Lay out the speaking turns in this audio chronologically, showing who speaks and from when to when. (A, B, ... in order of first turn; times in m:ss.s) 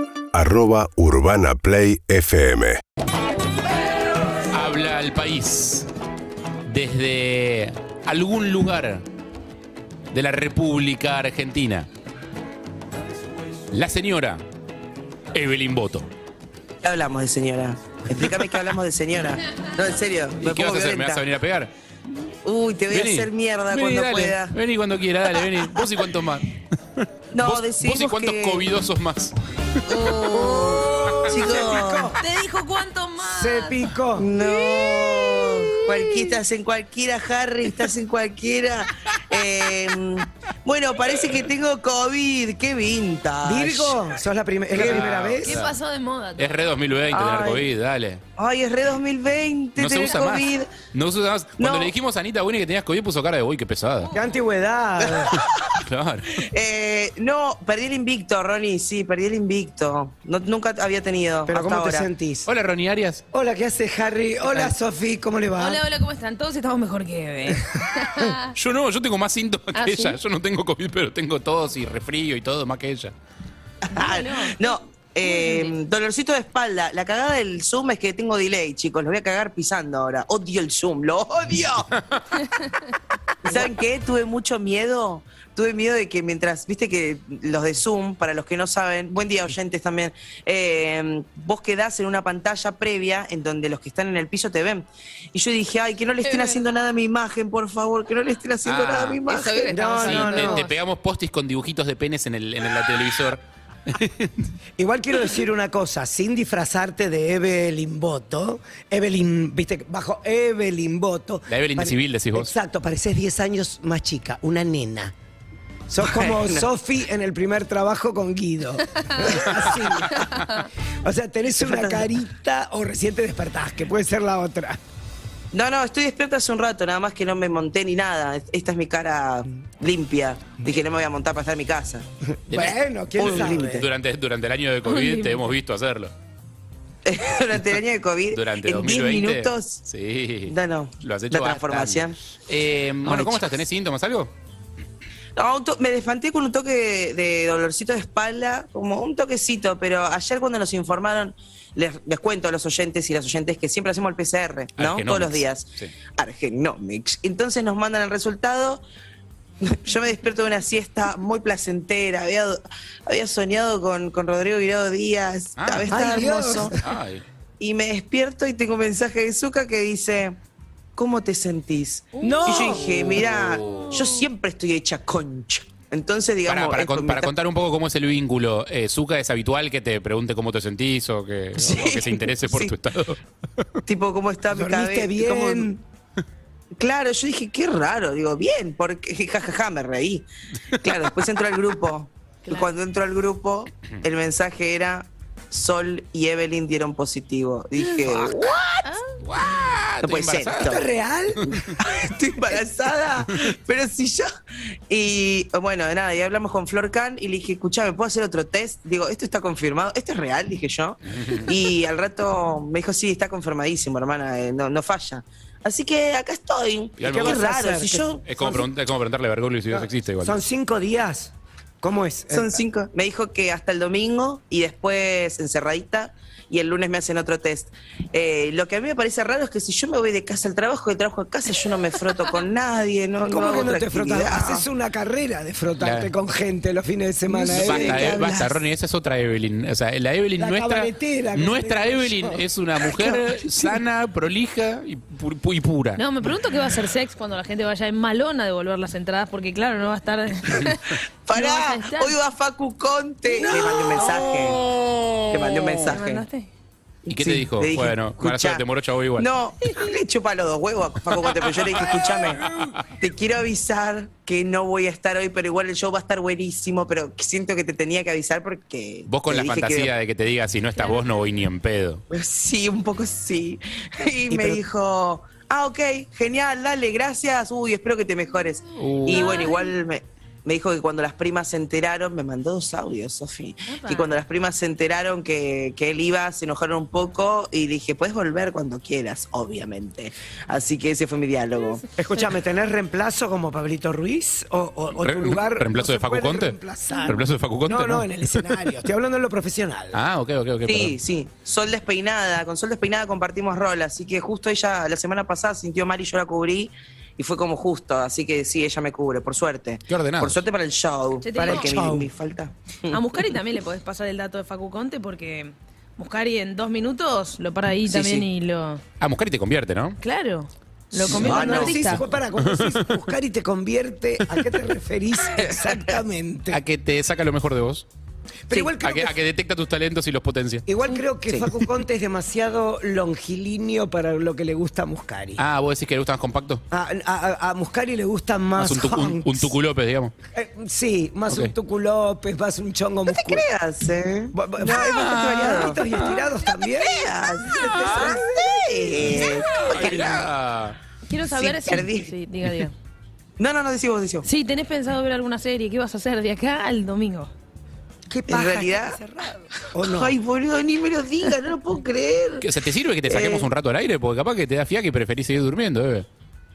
0:00.3-0:02.8 A
0:04.5-0:05.9 B
0:06.6-0:09.0 B
0:10.1-0:11.9 B
0:13.7-0:14.4 B
0:15.3-0:16.1 B
0:16.8-0:21.2 C
0:20.4-0:21.7 B
0:22.4-0:24.5 C
0:22.9-0:29.3 B
0:27.3-0:28.6 C
0:29.9-0:32.2 C
0:30.3-0:32.2 D
0:32.2-0:33.8 E
0:33.2-0:34.3 D
0:34.2-0:44.0 C
0:43.4-0:45.6 D
0:44.7-0:45.7 B
0:44.8-0:45.0 C
0:45.4-0:46.5 E
0:46.4-0:48.2 B
0:47.1-0:47.6 C
0:48.4-0:50.7 C
0:49.8-0:54.1 B
0:51.6-0:51.9 C
0:54.1-0:55.3 D
0:55.1-0:55.8 C
0:55.8-0:56.4 B
0:56.3-1:02.1 C
1:01.5-1:02.5 D
1:02.4-1:03.2 B
1:03.3-1:05.8 D
1:04.5-1:04.7 C
1:05.6-1:08.3 E
1:07.5-1:08.3 D
1:08.5-1:13.1 B
1:09.8-1:10.2 E
1:13.8-1:21.9 C
1:13.9-1:15.7 E
1:23.4-1:40.4 C
1:36.3-1:36.6 E
1:38.6-1:39.2 B
1:39.3-1:40.7 E
1:39.7-1:40.7 D
1:40.0-1:44.4 B
1:44.8-1:55.1 D
1:51.5-1:52.5 B
1:55.9-2:00.3 D
1:56.0-1:56.6 C
2:01.0-2:04.8 D
2:01.6-2:02.1 C
2:05.5-2:12.0 C
2:12.4-2:13.9 D
2:12.5-2:16.1 B
2:13.2-2:13.8 C
2:14.8-2:15.4 E
2:17.0-2:19.8 C
2:18.3-2:24.3 B
2:20.5-2:22.2 C
2:23.0-2:23.4 C
2:25.4-2:38.8 C
2:34.8-2:35.9 B
2:39.6-2:46.8 C
2:45.6-2:46.0 B
2:45.9-2:46.8 D
2:46.7-2:47.2 B
2:47.6-2:50.4 C
2:51.0-2:57.3 C
2:52.2-2:52.8 E
2:52.2-2:53.2 D
2:53.1-2:53.9 B
2:56.4-3:03.8 B
3:01.6-3:02.7 C
3:03.8-3:05.7 C
3:04.5-3:05.8 D
3:06.7-3:10.3 C
3:10.8-3:18.8 C
3:17.9-3:18.5 B
3:18.8-3:19.2 E
3:19.2-3:20.8 B
3:20.0-3:20.8 C
3:20.6-3:21.6 D
3:21.8-3:24.3 C
3:24.9-3:38.2 C
3:37.0-3:37.5 B
3:37.0-3:38.7 D
3:38.3-3:40.4 B
3:39.7-3:42.6 D
3:42.3-3:54.6 C
3:53.3-3:58.6 D
3:55.8-3:56.1 B
3:57.5-4:06.0 B
4:00.4-4:03.8 D
4:06.0-4:12.2 E
4:11.2-4:14.6 C
4:13.4-4:16.0 B
4:15.3-4:16.2 C
4:15.9-4:16.5 E
4:17.1-4:18.6 C
4:17.1-4:19.3 B
4:19.2-4:29.9 C
4:21.3-4:22.8 B
4:29.1-4:32.0 B
4:32.1-4:51.8 C
4:34.3-4:34.6 D
4:38.8-4:39.4 B
4:39.1-4:39.7 E
4:43.7-4:44.1 E
4:52.0-5:00.0 D
4:55.0-4:58.5 B
4:59.9-5:01.0 B
5:00.6-5:13.0 C
5:09.9-5:10.4 B
5:11.2-5:11.7 E
5:11.4-5:12.1 D
5:12.9-5:18.8 E
5:17.9-5:18.2 C
5:19.0-5:20.0 B
5:20.0-5:22.0 E
5:21.0-5:26.6 D
5:21.0-5:21.8 C
5:21.1-5:21.8 B
5:22.4-5:22.8 B
5:26.5-5:27.8 B
5:28.5-5:29.2 D
5:28.8-5:30.6 B
5:30.7-5:35.4 D
5:35.4-5:36.6 B
5:36.7-5:39.5 D
5:38.6-5:40.1 B
5:40.3-5:43.5 D
5:43.1-5:45.8 C
5:44.3-5:47.1 D
5:44.8-5:46.3 B
5:46.8-5:50.3 C
5:47.7-5:48.2 B
5:47.7-5:48.2 D
5:49.1-5:50.8 B
5:51.1-5:52.7 E
5:51.3-5:52.1 C
5:53.4-5:54.2 C
5:54.2-5:57.3 E
5:58.1-6:00.2 D
5:58.3-5:59.0 C
5:59.8-6:02.4 C
6:02.4-6:06.0 B
6:03.1-6:03.4 C